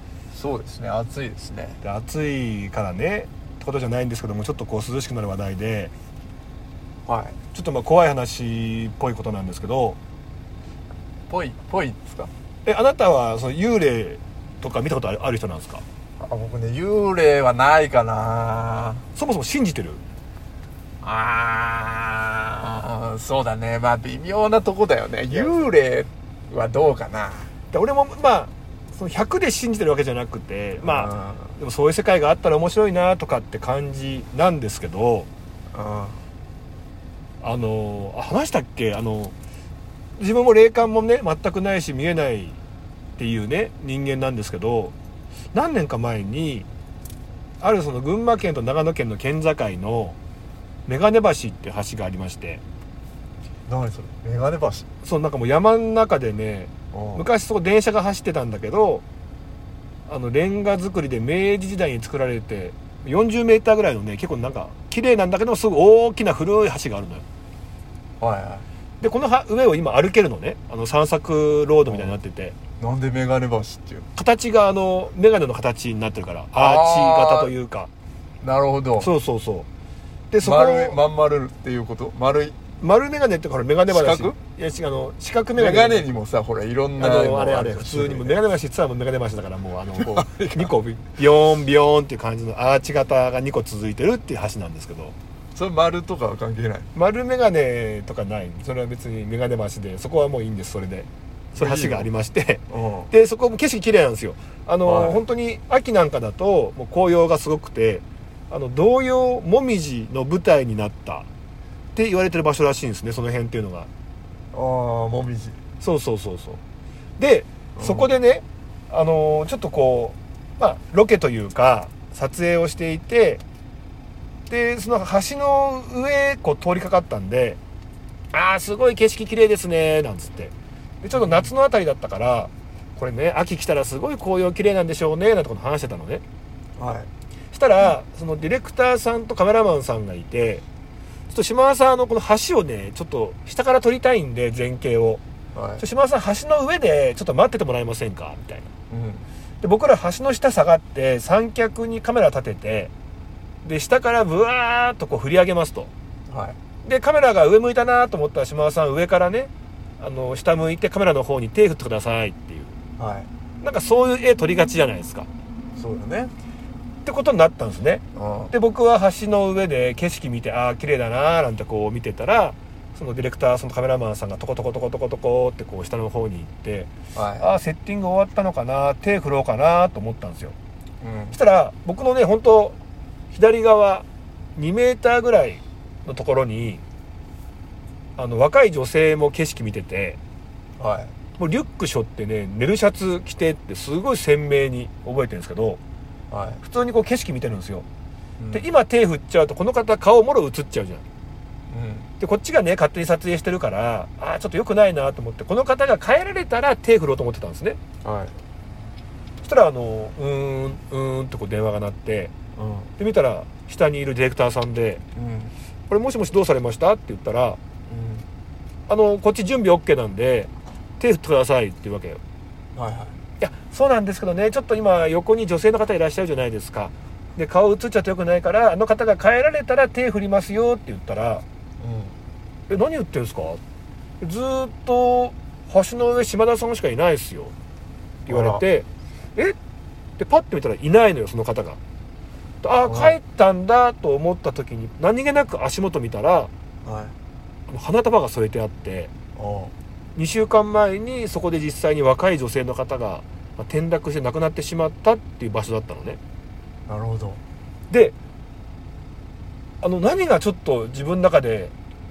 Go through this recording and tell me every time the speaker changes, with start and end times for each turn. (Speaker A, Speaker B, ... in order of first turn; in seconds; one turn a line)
Speaker A: 0.3-1.8
Speaker B: 1.8-5.9
Speaker A: 7.1-7.4
Speaker B: 7.5-10.0
Speaker A: 11.3-12.3
Speaker B: 12.7-15.8
Speaker A: 16.2-19.0
Speaker B: 19.1-20.0
Speaker A: 21.0-27.5
Speaker B: 27.7-35.3
Speaker A: 30.8-31.6
Speaker A: 35.7-36.2
Speaker B: 37.4-39.3
Speaker B: 40.2-42.6
Speaker B: 43.2-44.9
Speaker B: 45.5-46.7
Speaker B: 47.6-50.2
Speaker B: 50.9-52.6
Speaker A: 53.7-54.9
Speaker B: 55.0-59.0
Speaker A: 56.9-57.3
Speaker B: 60.1-67.2
Speaker A: 68.2-68.7
Speaker B: 69.0-72.6
Speaker A: 71.9-72.2
Speaker A: 72.8-74.1
Speaker B: 74.2-77.9
Speaker A: 76.5-77.5
Speaker A: 78.4-79.1
Speaker B: 79.0-79.7
Speaker B: 80.3-81.0
Speaker A: 80.4-82.6
Speaker B: 82.8-86.1
Speaker A: 83.9-84.4
Speaker A: 85.6-88.4
Speaker B: 87.0-95.2
Speaker A: 90.0-90.7
Speaker A: 95.5-96.9
Speaker B: 97.0-111.3
Speaker A: 101.5-102.1
Speaker A: 102.7-103.1
Speaker A: 104.9-105.2
Speaker B: 112.0-113.9
Speaker A: 114.5-115.6
Speaker B: 115.8-116.6
Speaker B: 117.2-123.4
Speaker A: 117.8-118.1
Speaker B: 124.5-127.6
Speaker B: 128.3-136.2
Speaker A: 131.1-131.5
Speaker A: 136.8-137.1
Speaker B: 137.5-140.6
Speaker B: 141.3-145.2
Speaker A: 145.5-145.8
Speaker B: 145.8-148.7
Speaker A: 148.9-149.3
Speaker B: 149.6-152.9
Speaker B: 153.6-155.9
Speaker A: 156.3-156.6
Speaker B: 156.8-162.8
Speaker A: 163.0-163.3
Speaker B: 163.6-165.3
Speaker A: 165.8-166.3
Speaker B: 167.0-180.6
Speaker A: 168.2-168.5
Speaker A: 177.1-177.5
Speaker A: 181.0-181.4
Speaker B: 181.3-182.8
Speaker B: 183.3-184.1
Speaker B: 184.6-186.8
Speaker B: 188.2-190.2
Speaker A: 190.8-191.1
Speaker B: 191.4-195.8
Speaker A: 196.3-196.6
Speaker B: 196.6-197.9
Speaker A: 198.4-198.7
Speaker B: 198.5-201.0
Speaker A: 201.7-202.1
Speaker B: 202.2-207.8
Speaker A: 208.0-208.3
Speaker B: 209.4-212.3
Speaker A: 212.6-212.9
Speaker B: 213.0-215.0
Speaker A: 215.2-215.5
Speaker B: 215.9-217.6
Speaker A: 217.9-218.2
Speaker B: 218.9-222.2
Speaker A: 222.8-223.2
Speaker B: 223.4-231.4
Speaker A: 231.8-232.2
Speaker B: 232.7-233.6
Speaker B: 234.2-237.5
Speaker B: 238.3-239.6
Speaker A: 238.3-238.6
Speaker B: 240.2-241.8
Speaker B: 242.6-246.5
Speaker A: 242.8-243.2
Speaker A: 246.8-247.2
Speaker B: 247.7-249.1
Speaker A: 249.4-249.7
Speaker B: 250.2-256.2
Speaker A: 256.9-257.4
Speaker B: 257.9-258.2
Speaker B: 259.8-261.7